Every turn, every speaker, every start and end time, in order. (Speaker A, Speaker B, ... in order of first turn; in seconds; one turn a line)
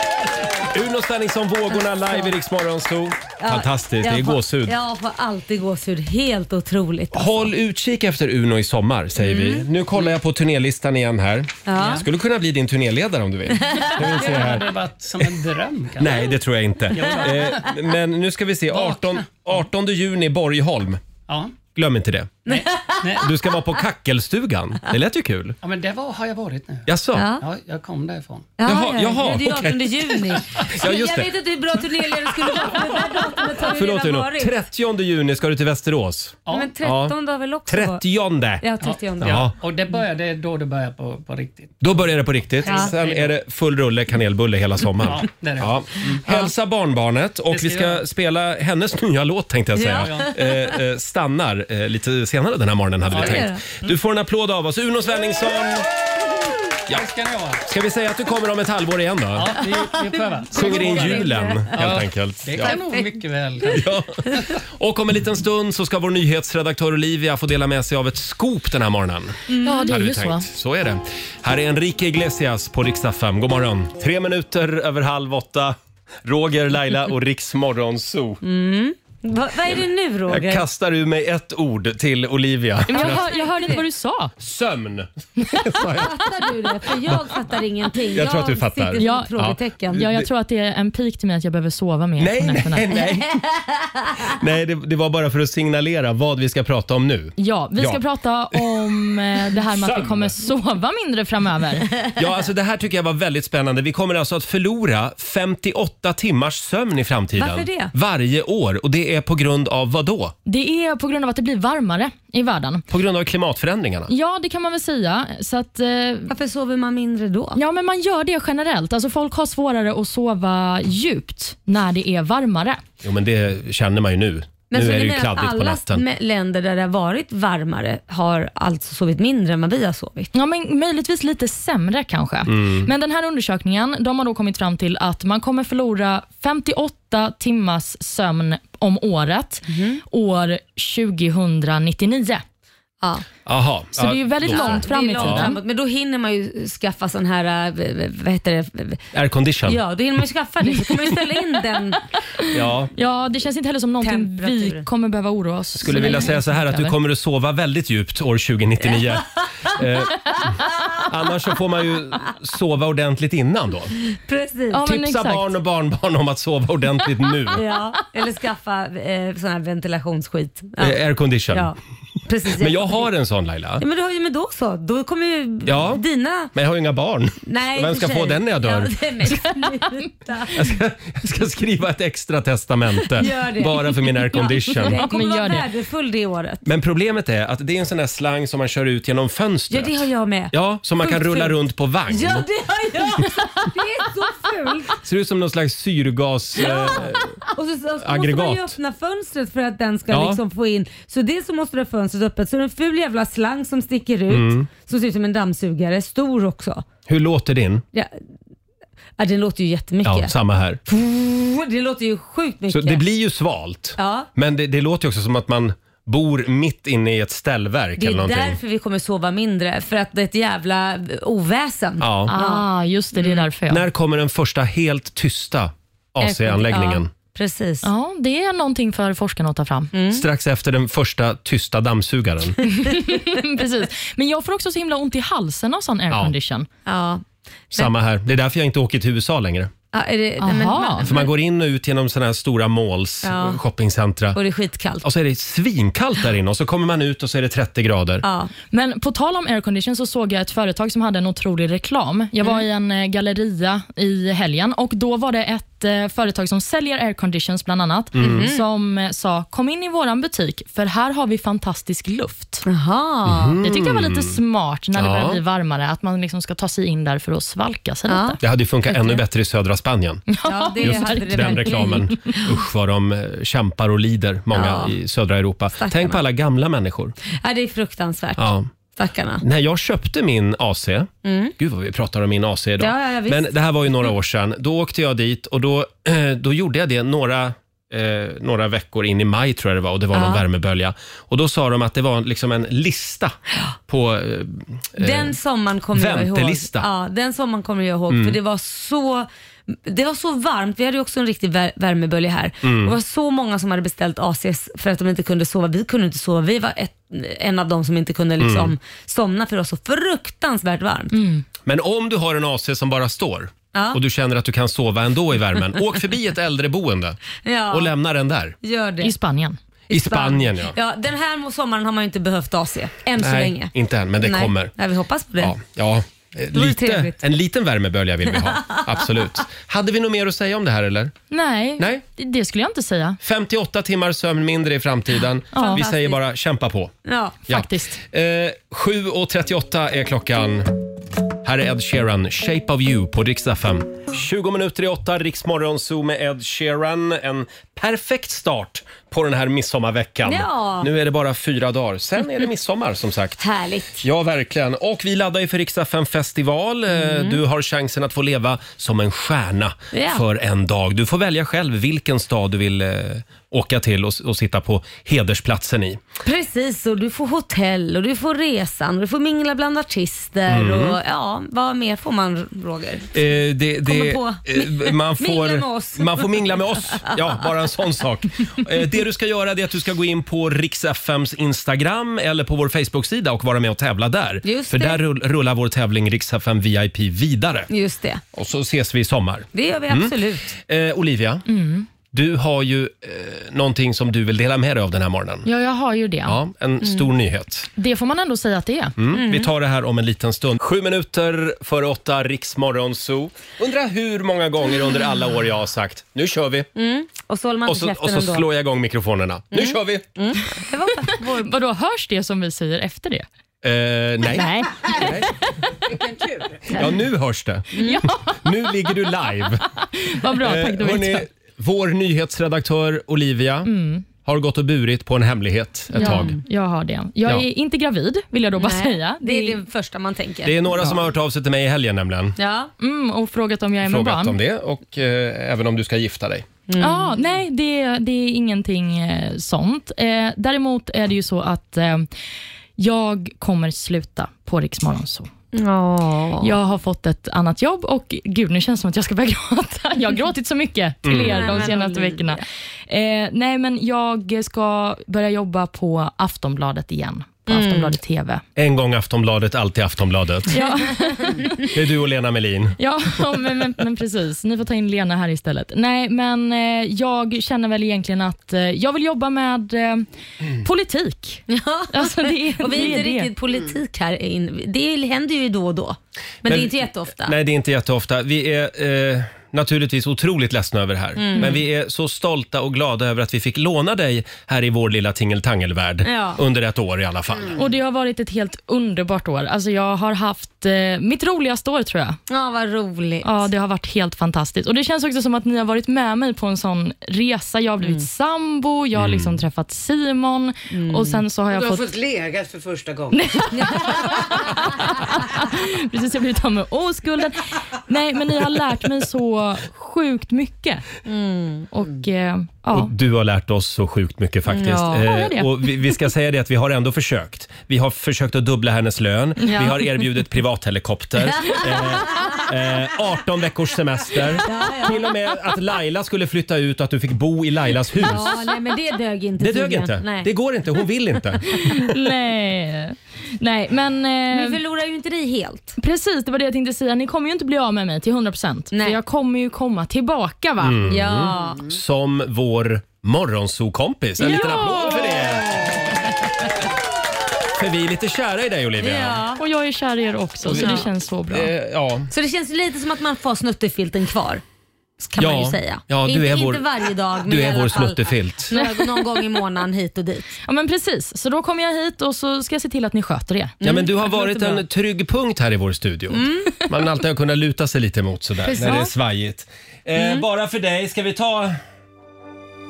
Speaker A: 0.6-4.7
Speaker B: 3.4-7.5
Speaker A: 7.1-15.3
Speaker B: 9.2-9.7
Speaker B: 11.7-12.0
Speaker C: 11.8-12.0
Speaker B: 13.6-14.1
Speaker C: 14.0-16.3
Speaker A: 16.0-21.0
Speaker C: 16.9-17.7
Speaker C: 18.7-19.3
Speaker C: 21.3-21.6
Speaker A: 21.7-22.4
Speaker B: 22.4-23.3
Speaker C: 22.5-23.3
Speaker A: 23.1-25.6
Speaker C: 25.6-28.6
Speaker A: 26.9-27.3
Speaker B: 27.1-27.4
Speaker B: 28.6-34.6
Speaker A: 28.6-31.3
Speaker A: 32.3-32.8
Speaker A: 33.6-37.1
Speaker C: 36.5-36.7
Speaker B: 36.5-38.0
Speaker A: 37.7-38.6
Speaker B: 38.6-39.5
Speaker C: 38.8-42.1
Speaker A: 39.2-39.5
Speaker A: 41.8-55.9
Speaker C: 42.6-43.3
Speaker B: 42.6-42.9
Speaker C: 45.0-46.2
Speaker C: 47.5-48.0
Speaker B: 49.7-50.6
Speaker C: 49.9-50.3
Speaker C: 53.1-53.4
Speaker B: 53.1-53.6
Speaker C: 56.9-57.6
Speaker A: 57.6-59.6
Speaker C: 59.3-63.9
Speaker B: 60.5-61.9
Speaker A: 60.5-62.8
Speaker B: 62.6-63.8
Speaker A: 63.7-78.4
Speaker B: 69.5-69.9
Speaker D: 69.6-70.5
Speaker B: 78.4-80.6
Speaker A: 80.3-83.3
Speaker D: 82.9-84.3
Speaker B: 82.9-83.8
Speaker A: 84.4-86.3
Speaker B: 85.8-90.1
Speaker A: 88.1-90.3
Speaker D: 89.0-89.3
Speaker D: 89.9-92.9
Speaker A: 92.2-93.4
Speaker B: 93.0-94.3
Speaker A: 94.2-98.0
Speaker D: 97.4-101.9
Speaker A: 98.5-100.4
Speaker A: 102.1-110.3
Speaker B: 107.4-107.9
Speaker D: 110.5-112.8
Speaker A: 112.9-114.1
Speaker D: 114.1-116.3
Speaker B: 116.3-117.6
Speaker D: 117.5-122.8
Speaker A: 123.0-126.0
Speaker B: 124.7-130.3
Speaker D: 130.3-142.4
Speaker A: 132.5-132.9
Speaker B: 139.7-140.0
Speaker A: 143.4-145.5
Speaker D: 143.9-145.6
Speaker B: 144.4-149.0
Speaker A: 149.1-149.8
Speaker B: 149.7-152.0
Speaker D: 152.4-156.9
Speaker A: 152.5-152.9
Speaker B: 154.0-154.8
Speaker A: 155.7-163.9
Speaker B: 155.9-156.3
Speaker B: 158.9-159.8
Speaker B: 160.8-161.0
Speaker B: 164.1-164.8
Speaker D: 164.7-165.5
Speaker A: 164.8-167.6
Speaker B: 167.5-171.0
Speaker A: 170.8-171.7
Speaker B: 171.5-173.1
Speaker A: 172.5-173.8
Speaker B: 173.8-176.5
Speaker A: 175.7-176.0
Speaker A: 176.5-178.9
Speaker B: 177.4-180.7
Speaker D: 179.6-179.9
Speaker A: 180.5-185.0
Speaker B: 183.1-186.6
Speaker D: 184.7-185.7
Speaker A: 186.6-192.5
Speaker B: 189.7-191.6
Speaker B: 192.1-195.0
Speaker A: 195.0-197.3
Speaker B: 196.6-206.8
Speaker A: 198.0-198.8
Speaker A: 200.1-200.4
Speaker A: 204.3-204.7
Speaker A: 207.1-207.8
Speaker B: 209.2-210.3
Speaker A: 210.0-210.8
Speaker B: 210.9-213.0
Speaker A: 212.7-218.6
Speaker B: 214.0-214.3
Speaker B: 218.0-223.4
Speaker A: 222.0-222.3
Speaker D: 222.3-223.8
Speaker A: 223.7-227.1
Speaker B: 226.2-227.9
Speaker D: 227.8-229.9
Speaker B: 229.9-230.2
Speaker A: 230.1-232.6
Speaker D: 232.7-236.7
Speaker B: 236.8-237.9
Speaker A: 237.7-239.7
Speaker B: 239.9-241.3
Speaker D: 240.4-241.1
Speaker A: 241.0-244.4
Speaker B: 243.2-243.6
Speaker B: 244.3-245.0
Speaker A: 245.0-248.2
Speaker B: 248.2-248.5
Speaker D: 248.7-262.6
Speaker A: 258.1-258.5
Speaker B: 258.2-258.6
Speaker B: 262.6-263.6
Speaker A: 263.2-264.4
Speaker D: 263.6-268.4
Speaker A: 264.9-265.4
Speaker B: 268.1-268.4
Speaker A: 268.4-270.2
Speaker D: 270.3-272.4
Speaker B: 270.4-272.5
Speaker A: 270.8-277.1
Speaker B: 274.5-274.9
Speaker B: 275.8-276.2
Speaker B: 277.3-279.4
Speaker A: 278.4-278.7
Speaker A: 279.4-293.3
Speaker B: 281.2-281.5
Speaker B: 282.8-284.1
Speaker B: 290.1-290.4
Speaker A: 293.9-295.3
Speaker B: 295.0-311.1
Speaker A: 295.9-296.9
Speaker A: 298.1-298.4
Speaker A: 302.6-302.9
Speaker A: 308.4-308.7
Speaker D: 311.1-311.4
Speaker A: 311.6-317.2
Speaker B: 313.7-314.0
Speaker B: 317.4-317.9
Speaker A: 317.7-318.6
Speaker B: 318.6-319.1
Speaker D: 319.0-319.6
Speaker A: 319.9-320.7
Speaker B: 319.9-325.5
Speaker A: 323.2-324.7
Speaker A: 325.4-331.1
Speaker B: 326.5-327.2
Speaker B: 328.4-329.1
Speaker D: 331.3-333.2
Speaker A: 333.2-336.9
Speaker D: 335.5-335.8
Speaker B: 335.5-336.2
Speaker B: 337.0-337.4
Speaker D: 337.5-338.0
Speaker A: 337.5-340.7
Speaker A: 341.4-353.4
Speaker B: 350.2-350.9
Speaker B: 353.4-354.0
Speaker A: 354.0-366.0
Speaker B: 357.0-357.4
Speaker B: 359.9-360.2
Speaker B: 366.2-373.1
Speaker A: 370.5-371.0
Speaker A: 373.1-387.7
Speaker B: 373.8-377.4
Speaker B: 384.4-385.0
Speaker B: 387.7-388.2
Speaker A: 388.3-391.4
Speaker B: 389.5-390.6
Speaker D: 391.5-391.9
Speaker A: 392.1-395.5
Speaker D: 395.4-396.4
Speaker A: 396.2-397.7
Speaker B: 396.8-397.1
Speaker D: 397.8-398.9
Speaker A: 399.0-406.7
Speaker B: 399.1-399.5
Speaker B: 406.7-408.5
Speaker A: 407.6-410.0
Speaker B: 409.5-411.5
Speaker D: 411.1-413.2
Speaker A: 413.6-415.3
Speaker D: 414.3-415.7
Speaker E: 415.9-416.7
Speaker A: 416.7-417.7
Speaker B: 417.7-418.0
Speaker D: 417.7-418.6
Speaker A: 418.3-419.7
Speaker D: 419.9-421.2
Speaker A: 420.3-423.7
Speaker D: 423.6-424.1
Speaker A: 424.2-426.4
Speaker D: 425.9-429.6
Speaker B: 426.0-426.4
Speaker B: 428.6-430.9
Speaker A: 430.4-432.4
Speaker B: 432.4-432.7
Speaker D: 432.8-434.4
Speaker A: 433.8-436.5
Speaker B: 436.7-437.1
Speaker D: 436.8-442.1
Speaker D: 442.8-445.3
Speaker B: 445.5-446.5
Speaker D: 446.4-458.4
Speaker A: 451.0-451.6
Speaker B: 451.1-452.4
Speaker B: 457.5-457.9
Speaker A: 458.6-460.6
Speaker D: 460.5-461.7
Speaker A: 461.7-462.8
Speaker D: 462.8-470.1
Speaker D: 470.6-473.3
Speaker B: 471.5-477.4
Speaker A: 476.4-487.6
Speaker B: 481.2-481.6
Speaker B: 486.0-486.4
Speaker D: 487.5-492.2
Speaker B: 492.3-493.4
Speaker D: 493.2-501.9
Speaker A: 498.9-499.4
Speaker B: 500.7-501.2
Speaker E: 501.5-504.6
Speaker D: 503.1-510.9
Speaker B: 511.1-511.7
Speaker D: 511.7-512.9
Speaker A: 512.7-528.4
Speaker B: 514.5-515.0
Speaker D: 514.9-515.5
Speaker B: 519.5-519.8
Speaker B: 521.4-522.5
Speaker B: 524.4-525.0
Speaker B: 528.0-530.3
Speaker A: 529.4-531.8
Speaker D: 531.5-534.6
Speaker B: 534.3-535.8
Speaker D: 535.8-540.9
Speaker B: 538.7-539.0
Speaker A: 540.6-546.0
Speaker B: 540.9-541.7
Speaker D: 544.2-545.7
Speaker A: 547.5-549.2
Speaker B: 548.8-549.4
Speaker D: 549.4-551.5
Speaker A: 550.4-552.1
Speaker B: 550.6-550.8
Speaker B: 552.1-554.4
Speaker B: 555.0-560.3
Speaker A: 555.2-556.6
Speaker A: 557.2-558.5
Speaker D: 558.5-559.0
Speaker D: 560.5-563.5
Speaker B: 563.6-564.6
Speaker A: 563.6-571.6
Speaker B: 566.1-566.5
Speaker D: 568.5-568.9
Speaker B: 569.9-570.2